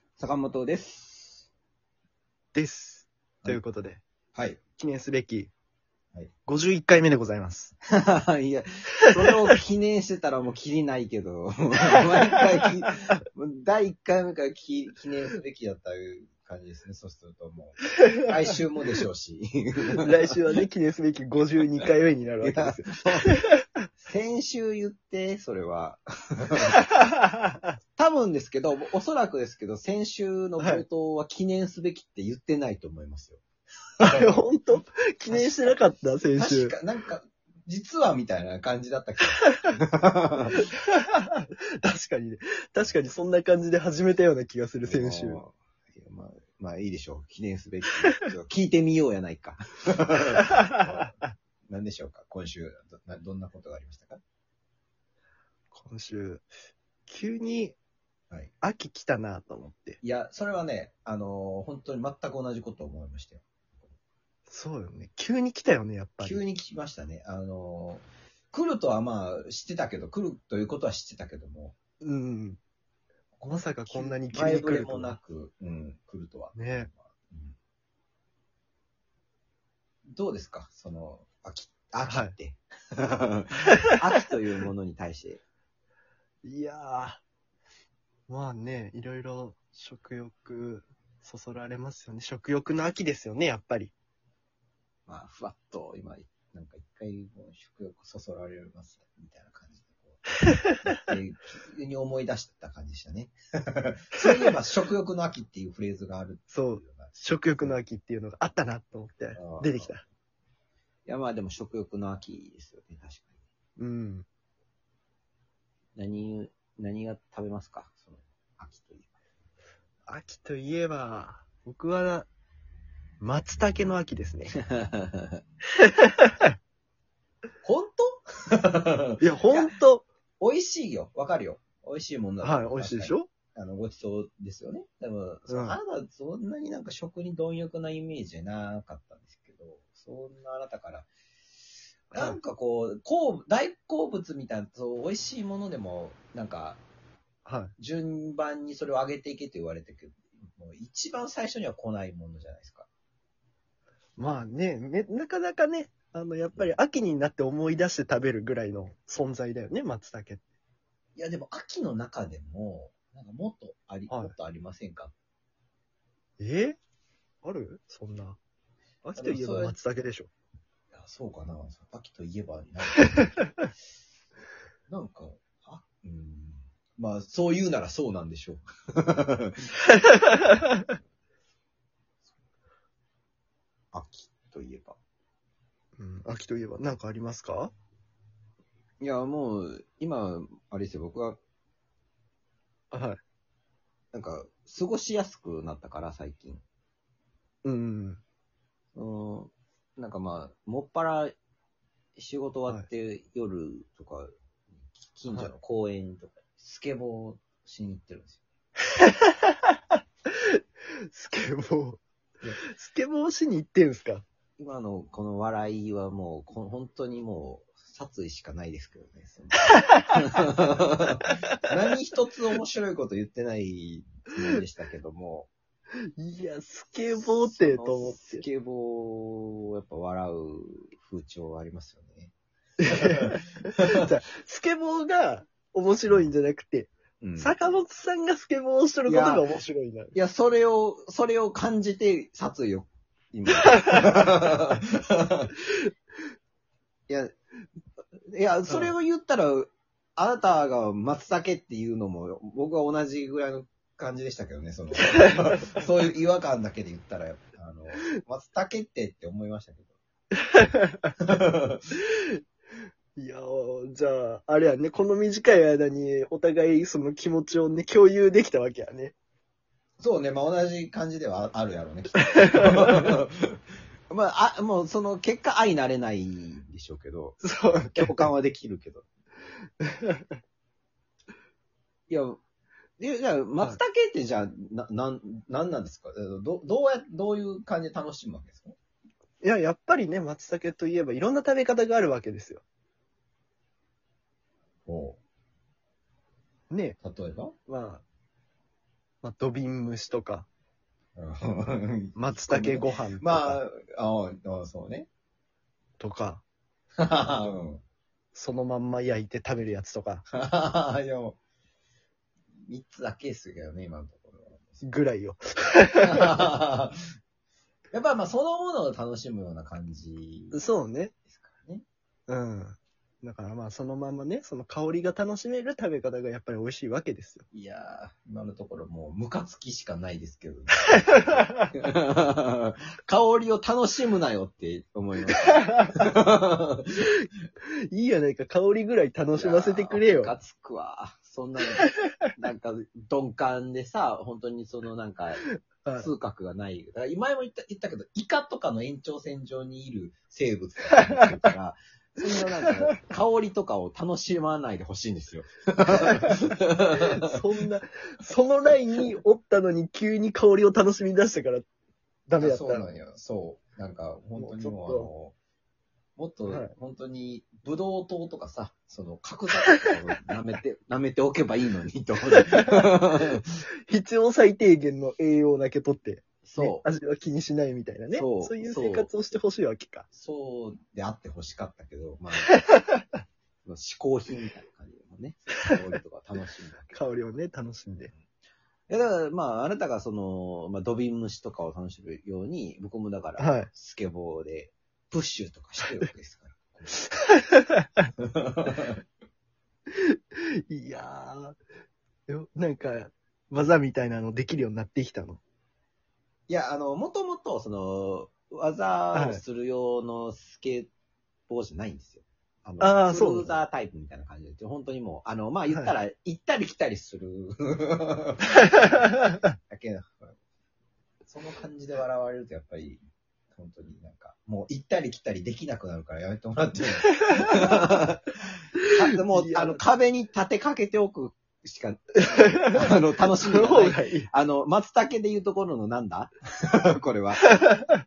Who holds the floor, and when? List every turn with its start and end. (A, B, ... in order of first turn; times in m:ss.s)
0:00.2-0:01.5 A
0:02.5-0:04.0 B
0:04.3-0:04.6 A
0:04.8-0:05.5 B
0:06.4-0:07.7 B
0:07.9-0:20.1 A
0:20.0-0:23.6 B
0:22.4-0:23.3 A
0:24.0-0:26.8 A
0:27.0-0:27.3 B
0:28.0-0:33.4 A
0:30.6-0:30.8 B
0:34.0-0:34.4 A
0:34.0-0:36.8 B
0:35.3-0:35.8 A
0:36.3-0:40.6 A
0:39.4-0:39.6 B
0:40.5-0:45.4 B
0:44.8-0:51.2 A
0:51.7-0:54.2 A
0:55.7-0:56.5 B
0:57.1-0:57.8 B
0:58.6-1:00.0 B
1:00.0-1:03.9 A
1:04.5-1:06.4 B
1:06.2-1:11.7 A
1:12.0-1:12.6 B
1:13.4-1:17.6 A
1:13.4-1:15.2 B
1:16.5-1:16.9 B
1:20.0-1:25.4 A
1:22.1-1:22.3 B
1:26.4-1:27.2 B
1:28.3-1:33.9 B
1:35.1-1:47.8 A
1:46.5-1:50.0 B
1:49.3-1:50.0 A
1:51.0-1:53.4 A
1:53.8-1:54.2 B
1:56.0-1:59.1 A
2:00.1-2:02.3 B
2:03.2-2:04.5 B
2:04.5-2:05.4 A
2:05.8-2:06.4 B
2:07.6-2:09.7 A
2:09.2-2:10.0 B
2:10.4-2:21.1 A
2:12.4-2:13.3 B
2:15.5-2:15.8 B
2:22.1-2:26.8 A
2:22.1-2:22.4 B
2:27.4-2:27.7 B
2:27.8-2:32.9 A
2:34.2-2:40.4 B
2:41.2-2:45.1 A
2:44.1-2:44.3 B
2:46.4-2:46.8 B
2:47.4-2:48.4 B
2:49.0-2:50.3 B
2:49.2-2:49.8 A
2:50.9-2:53.4 A
2:54.9-2:59.6 A
3:00.3-3:00.6 B
3:03.9-3:05.0 A
3:06.0-3:07.7 B
3:09.0-3:11.4 A
3:12.9-3:13.2 B
3:14.1-3:16.6 A
3:17.6-3:18.2 B
3:18.9-3:21.3 A
3:22.2-3:28.4 A
3:29.0-3:29.5 B
3:31.1-3:34.2 B
3:34.6-3:45.5 A
3:39.9-3:40.1 B
3:46.2-3:48.4 B
3:47.2-3:52.3 A
3:52.8-4:00.1 B
3:52.8-3:54.1 A
3:57.2-3:57.6 A
3:59.1-3:59.4 A
4:00.1-4:05.5 A
4:03.7-4:04.0 B
4:07.1-4:07.3 A
4:08.3-4:19.9 A
4:08.7-4:08.9 B
4:20.5-4:21.1 B
4:21.2-4:21.9 A
4:23.2-4:29.1 B
4:30.0-4:33.6 A
4:32.2-4:33.1 B
4:34.1-4:39.0 A
4:37.4-4:38.3 B
4:39.8-4:40.3 B
4:42.1-4:42.4 A
4:43.0-4:48.8 A
4:49.4-4:52.6 B
4:54.8-4:55.2 A
4:56.7-4:57.0 B
4:57.0-4:57.5 A
4:57.6-4:58.0 B
4:59.2-5:00.5 B
5:01.1-5:05.1 A
5:02.1-5:03.6 B
5:06.0-5:06.4 B
5:07.0-5:07.8 A
5:08.3-5:10.2 B
5:10.3-5:11.4 A
5:12.6-5:14.8 A
5:14.8-5:16.4 B
5:16.0-5:17.0 A
5:17.9-5:20.6 A
5:20.5-5:21.1 B
5:21.3-5:21.8 A
5:22.3-5:27.4 B
5:27.5-5:37.1 A
5:35.7-5:36.0 B
5:37.9-5:40.3 B
5:39.3-5:57.2 A
5:45.5-5:46.1 B
5:52.4-5:53.0 B
5:56.1-5:56.4 B
5:57.2-6:01.6 B
6:02.3-6:02.9 B
6:02.4-6:05.3 A
6:04.4-6:05.1 B
6:06.2-6:13.6 A
6:06.5-6:06.7 B
6:12.3-6:12.9 B
6:13.9-6:20.0 B
6:16.4-6:16.8 A
6:18.1-6:19.1 A
6:20.1-6:22.7 A
6:23.6-6:27.0 A
6:26.9-6:28.1 B
6:28.9-6:37.0 A
6:33.4-6:33.7 B
6:37.3-6:37.9 B
6:38.2-6:39.0 A
6:39.9-6:41.6 B
6:42.3-6:45.4 B
6:46.5-6:50.9 A
6:49.1-6:49.4 B
6:51.5-6:59.0 A
6:52.8-6:53.5 B
6:55.7-6:56.0 B
6:59.7-7:00.4 A
7:01.2-7:03.0 A
7:03.5-7:17.7 A
7:09.3-7:09.8 B
7:12.3-7:14.3 B
7:17.6-7:18.0 B